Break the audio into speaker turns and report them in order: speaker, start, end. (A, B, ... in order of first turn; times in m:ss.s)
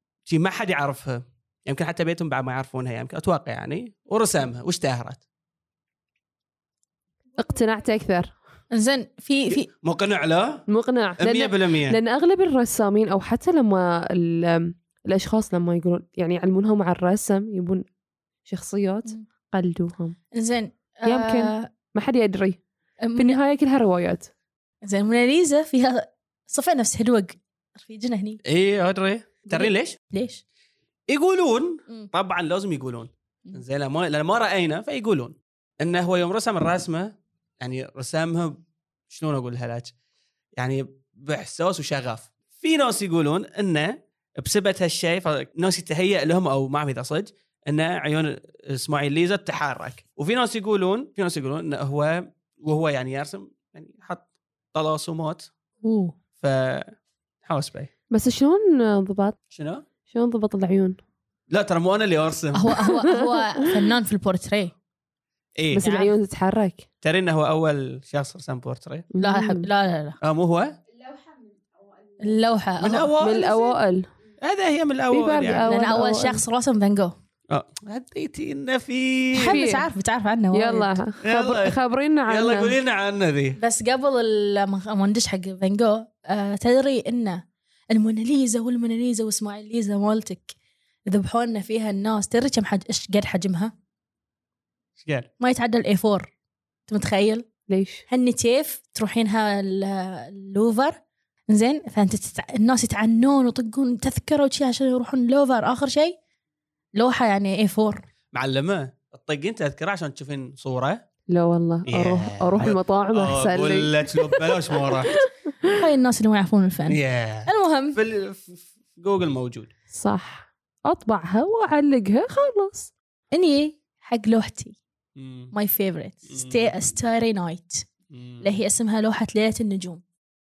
0:00.3-0:05.2 A
0:07.4-0:08.3 B
0:08.7-0:09.7 C
0:09.8-0:10.6 A
0:10.7-0:17.8 B
0:11.2-0:12.0 A
0:18.4-0:20.2 B
0:20.3-0:21.7 C
0:21.0-0:22.6 B
0:23.0-0:23.4 C
0:23.2-0:24.3 B
0:24.8-0:28.4 C
0:28.4-0:30.0 A
0:29.5-0:30.4 C
0:31.1-0:39.9 A
0:40.6-0:55.5 A
0:55.8-0:56.1 C
0:56.4-0:57.9 A
0:58.1-0:59.4 B
0:59.5-0:59.8 A
1:00.1-1:01.0 B
1:01.5-1:02.7 A
1:02.5-1:04.7 C
1:02.8-1:03.4 B
1:05.6-1:05.8 A
1:05.7-1:06.8 B
1:05.8-1:06.1 C
1:07.0-1:09.1 A
1:09.1-1:09.7 B
1:09.2-1:10.2 C
1:10.2-1:10.8 A
1:12.2-1:13.5 C
1:12.8-1:13.5 A
1:13.2-1:14.1 B
1:14.4-1:15.6 A
1:15.1-1:16.4 B
1:15.6-1:17.1 C
1:17.5-1:19.6 A
1:19.3-1:21.0 C
1:19.5-1:19.9 B
1:20.5-1:22.7 B
1:21.2-1:23.6 A
1:23.6-1:30.5 C
1:31.1-1:33.7 C
1:35.0-1:35.3 A
1:35.4-1:36.3 C
1:36.9-1:37.4 C
1:37.7-1:38.0 B
1:38.1-1:41.0 C
1:41.5-1:46.1 C
1:46.9-1:48.0 C
1:48.3-1:51.0 A
1:51.3-1:55.8 B
1:51.9-1:55.2 A
1:55.7-1:58.0 C
1:56.9-1:59.7 A
1:59.9-2:02.9 B
2:03.3-2:04.8 C
2:05.2-2:05.5 A
2:05.5-2:07.9 C
2:06.3-2:06.7 A
2:08.1-2:08.5 A
2:08.4-2:10.0 C